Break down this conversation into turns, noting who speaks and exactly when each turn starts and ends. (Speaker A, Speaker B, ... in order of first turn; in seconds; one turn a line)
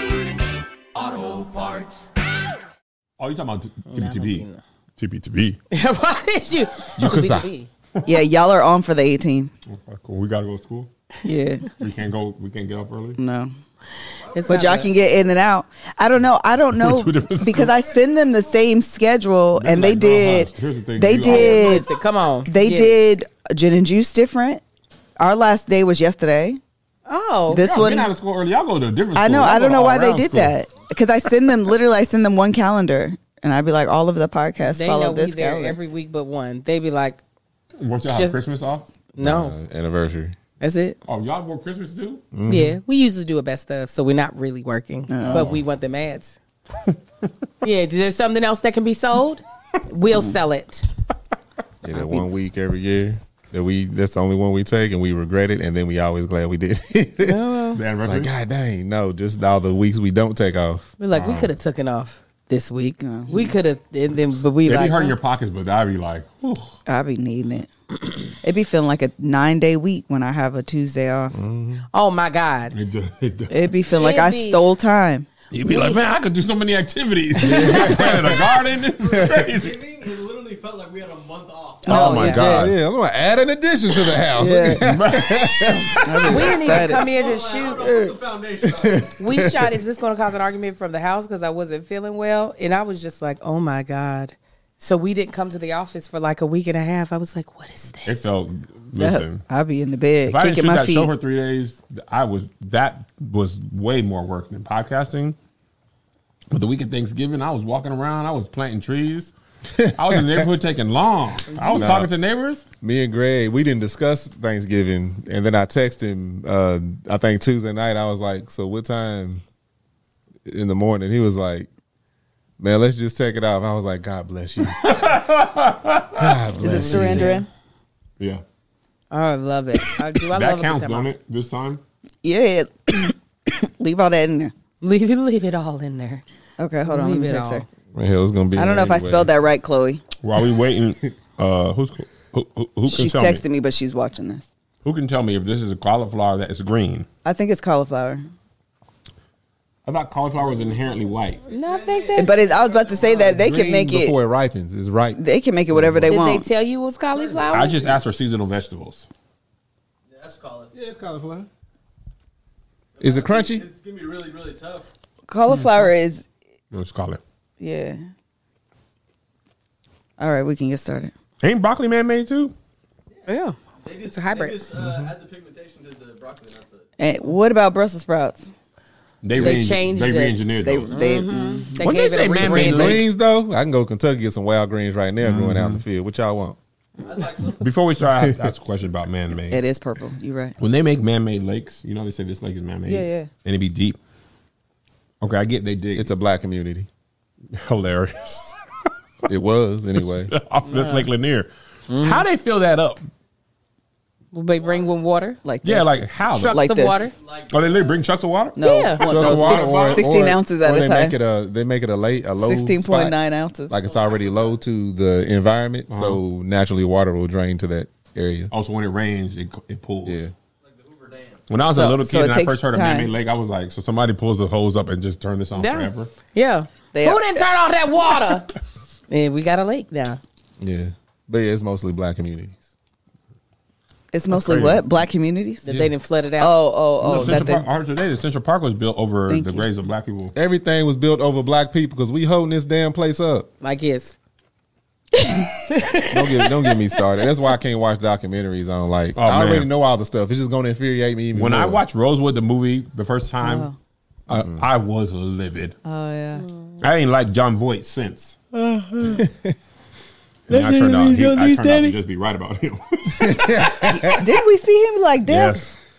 Speaker A: 3.2-4.5
Speaker B: 3.9-4.6
Speaker A: 5.0-5.6
Speaker B: 5.7-7.7
Speaker C: 7.0-7.5
Speaker D: 8.1-9.5
Speaker A: 9.7-10.9
Speaker D: 11.2-11.7
Speaker A: 11.8-13.2
Speaker D: 13.2-13.5
Speaker E: 14.3-14.7
Speaker B: 14.3-14.9
Speaker D: 14.5-21.9
Speaker A: 16.7-17.7
Speaker A: 19.6-21.8
Speaker B: 21.2-23.0
Speaker D: 22.5-24.6
Speaker D: 25.2-26.6
Speaker B: 27.1-27.6
Speaker D: 27.5-28.1
Speaker A: 27.6-30.5
Speaker D: 29.1-35.8
Speaker B: 34.7-37.2
Speaker A: 37.8-38.9
Speaker B: 38.0-38.4
Speaker B: 39.1-39.5
Speaker C: 39.2-40.4
Speaker B: 40.6-41.0
Speaker A: 41.1-42.2
Speaker C: 42.3-42.8
Speaker B: 42.5-46.4
Speaker D: 45.1-45.6
Speaker B: 47.6-50.9
Speaker C: 51.8-57.4
Speaker D: 51.9-52.3
Speaker B: 57.2-57.8
Speaker A: 57.8-58.3
Speaker C: 58.0-60.9
Speaker B: 61.0-65.2
Speaker A: 61.1-61.5
Speaker D: 63.0-63.5
Speaker A: 64.7-66.7
Speaker D: 66.9-67.7
Speaker D: 68.4-71.3
Speaker C: 71.3-71.8
Speaker B: 71.9-72.8
Speaker A: 72.7-73.6
Speaker D: 73.5-75.3
Speaker B: 74.0-74.6
Speaker A: 75.5-79.8
Speaker B: 75.7-76.0
Speaker C: 77.4-78.4
Speaker E: 79.2-82.2
Speaker B: 81.9-82.5
Speaker A: 81.9-82.7
Speaker D: 81.9-82.7
Speaker C: 82.0-86.6
Speaker D: 84.3-84.8
Speaker A: 84.8-86.1
Speaker D: 86.0-87.1
Speaker B: 86.3-87.9
Speaker E: 86.7-89.1
Speaker C: 88.7-89.7
Speaker B: 89.2-98.3
Speaker A: 98.1-99.4
Speaker D: 99.0-101.1
Speaker A: 100.3-105.4
Speaker A: 106.5-109.3
Speaker C: 109.8-110.5
Speaker A: 109.9-112.6
Speaker B: 111.5-111.9
Speaker C: 111.8-112.1
Speaker C: 112.8-119.4
Speaker C: 120.5-121.7
Speaker C: 122.6-125.2
Speaker A: 124.7-127.2
Speaker C: 126.1-127.4
Speaker D: 126.6-127.5
Speaker B: 126.7-127.5
Speaker B: 129.1-131.1
Speaker A: 130.3-131.8
Speaker D: 132.2-134.5
Speaker B: 134.8-136.2
Speaker D: 136.6-137.7
Speaker B: 136.9-137.6
Speaker C: 137.9-139.3
Speaker D: 138.6-140.0
Speaker A: 140.2-143.4
Speaker D: 142.9-144.5
Speaker A: 144.8-147.1
Speaker D: 147.2-148.3
Speaker A: 149.9-151.4
Speaker E: 151.5-153.4
Speaker B: 151.5-152.4
Speaker D: 152.2-154.2
Speaker C: 153.3-156.2
Speaker D: 155.2-156.5
Speaker B: 156.1-157.9
Speaker E: 157.1-157.9
Speaker A: 157.5-159.1
Speaker E: 160.1-160.8
Speaker C: 160.7-161.5
Speaker E: 163.0-164.8
Speaker C: 163.0-163.7
Speaker D: 165.3-166.2
Speaker A: 166.7-167.2
Speaker D: 167.6-168.0
Speaker D: 170.2-171.1
Speaker A: 171.4-172.5
Speaker B: 173.3-173.6
Speaker E: 173.8-176.9
Speaker B: 174.1-174.6
Speaker C: 174.8-175.1
Speaker D: 177.0-178.5
Speaker A: 179.2-181.0
Speaker B: 179.4-180.4
Speaker D: 180.6-181.9
Speaker B: 180.9-183.0
Speaker A: 181.8-183.1
Speaker D: 182.4-182.7
Speaker C: 182.5-186.6
Speaker A: 185.2-185.8
Speaker E: 187.0-187.7
Speaker A: 187.6-189.6
Speaker C: 188.1-188.5
Speaker D: 189.5-190.6
Speaker A: 190.6-194.0
Speaker D: 192.9-193.3
Speaker A: 195.2-196.1
Speaker C: 196.0-196.9
Speaker A: 197.5-198.6
Speaker C: 199.3-200.3
Speaker A: 200.3-203.1
Speaker B: 200.7-201.1
Speaker B: 201.9-202.2
Speaker B: 204.3-205.4
Speaker E: 204.6-204.9
Speaker D: 205.4-207.1
Speaker A: 205.6-206.6
Speaker B: 206.3-207.1
Speaker E: 207.1-208.1
Speaker A: 207.5-210.1
Speaker D: 208.6-211.2
Speaker B: 208.6-209.1
Speaker C: 209.0-213.2
Speaker D: 212.4-213.8
Speaker C: 213.7-218.5
Speaker E: 213.9-214.6
Speaker A: 215.9-216.2
Speaker A: 218.5-220.2
Speaker C: 220.1-220.3
Speaker E: 220.6-221.5
Speaker A: 221.5-226.1
Speaker D: 221.7-223.1
Speaker B: 225.6-228.5
Speaker D: 226.9-227.5
Speaker B: 229.1-230.2
Speaker C: 230.6-232.6
Speaker D: 234.1-235.7
Speaker A: 234.3-234.8
Speaker B: 235.7-236.6
Speaker C: 235.7-235.9
Speaker D: 236.4-237.7
Speaker A: 237.0-240.3
Speaker C: 237.1-237.5
Speaker D: 239.3-239.7
Speaker C: 240.3-243.5
Speaker B: 243.6-244.2
Speaker B: 245.3-247.0
Speaker C: 246.1-251.8
Speaker A: 249.2-249.7
Speaker A: 251.3-253.7
Speaker D: 253.4-253.8
Speaker C: 254.3-254.6
Speaker A: 254.3-255.8
Speaker D: 255.8-256.5
Speaker B: 256.4-256.7
Speaker A: 256.8-258.4
Speaker D: 258.5-259.3
Speaker C: 259.2-259.5
Speaker D: 260.5-262.0
Speaker A: 260.5-264.2
Speaker C: 263.2-264.3
Speaker D: 263.9-265.6
Speaker A: 265.2-265.7